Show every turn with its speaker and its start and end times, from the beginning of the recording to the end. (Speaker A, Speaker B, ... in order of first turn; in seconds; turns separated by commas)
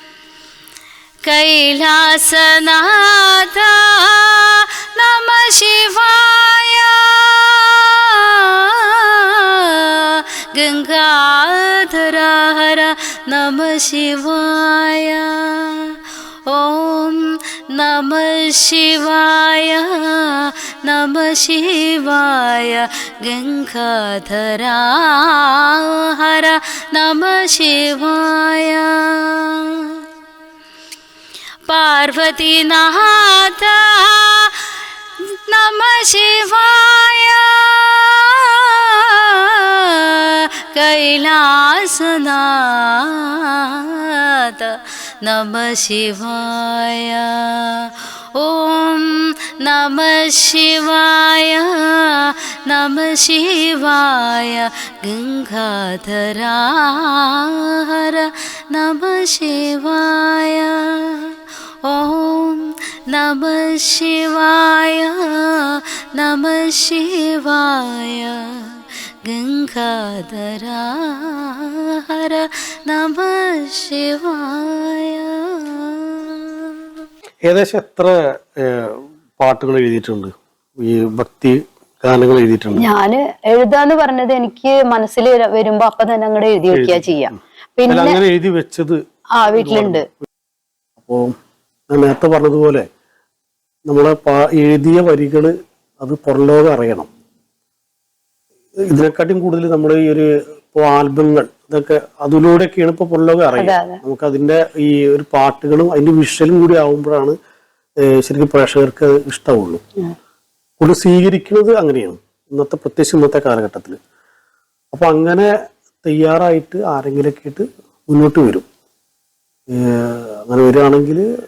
Speaker A: 1.2-30.0, Speaker A: 31.7-34.7, Speaker A: 35.5-61.3, Speaker A: 61.8-68.7, Speaker A: 69.2-76.7, Speaker B: 77.5-82.8, Speaker C: 82.8-88.2, Speaker B: 86.7-87.1, Speaker B: 87.9-89.0, Speaker C: 89.4-90.0, Speaker B: 89.5-90.0, Speaker B: 91.0-91.3, Speaker B: 91.9-92.8, Speaker B: 93.9-97.1, Speaker B: 98.8-107.3, Speaker C: 103.5-104.0, Speaker B: 108.0-109.8, Speaker B: 110.8-114.0, Speaker B: 114.9-115.5, Speaker B: 116.0-118.7, Speaker B: 119.7-121.2